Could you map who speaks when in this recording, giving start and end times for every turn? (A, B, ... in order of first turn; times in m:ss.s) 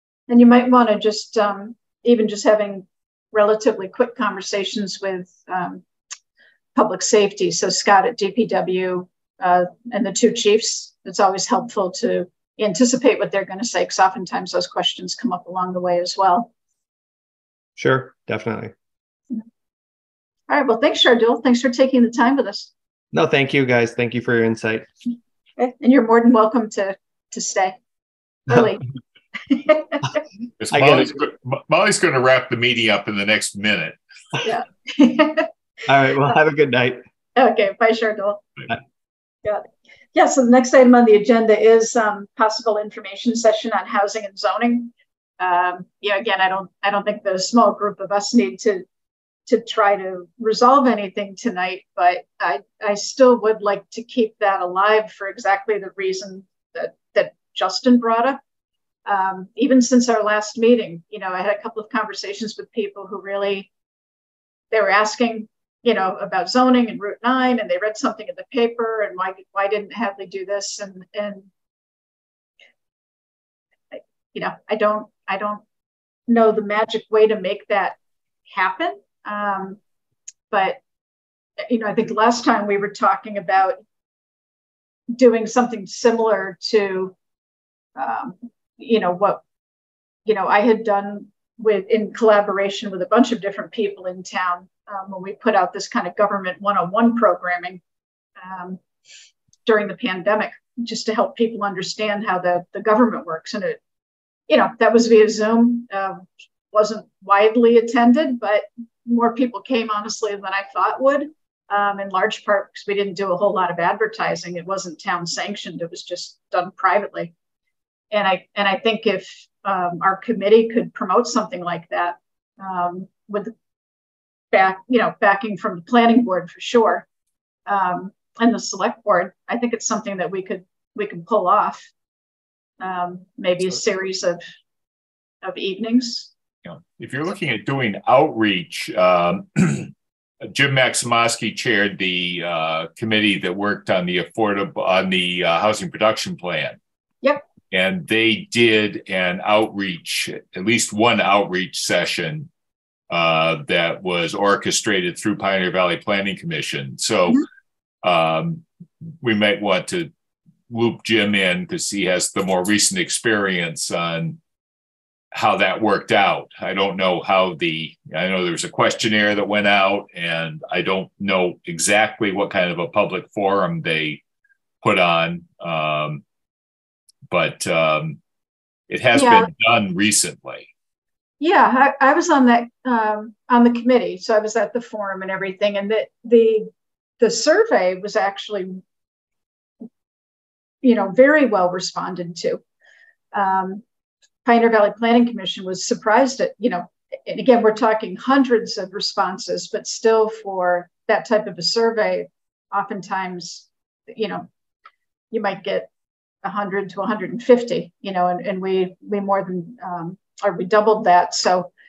0:00.3-0:05.8 A
0:06.8-0:16.5 A
0:17.8-0:18.7 B
0:20.5-0:22.7 A
0:23.1-0:24.9 B
0:25.6-0:27.8 A
0:28.5-0:28.8 A
0:29.5-0:30.2 A
0:30.6-0:34.0 C
0:30.7-0:31.1 B
0:34.4-0:35.5 A
0:35.9-0:37.0 B
0:37.4-0:38.4 A
0:39.4-0:48.8 A
0:49.5-0:58.4 A
0:59.1-1:03.7 A
1:04.7-1:11.5 A
1:13.9-1:15.6 A
1:16.3-1:19.8 A
1:20.5-1:20.8 A
1:21.6-1:23.8 A
1:25.1-1:27.1 A
1:28.0-1:29.4 A
1:30.3-1:37.8 A
1:38.4-1:38.8 A
1:39.7-1:43.8 A
1:44.5-1:57.3 A
1:58.1-2:03.5 A
2:04.5-2:07.1 A
2:07.7-2:11.9 A
2:12.8-2:14.4 A
2:15.4-2:16.3 A
2:16.6-2:26.8 C
2:27.7-2:32.5 C
2:33.1-2:37.4 C
2:38.0-2:38.6 C
2:39.2-2:40.1 C
2:40.7-2:44.4 C
2:45.3-2:54.2 C
2:54.8-2:56.2 C
2:57.3-2:58.2 C
2:58.9-3:00.7 C
2:59.2-2:59.5 A
3:01.4-3:08.8 A
3:10.8-3:12.6 A
3:13.3-3:13.8 A
3:14.4-3:24.5 A
3:25.3-3:25.9 A
3:26.4-3:31.7 A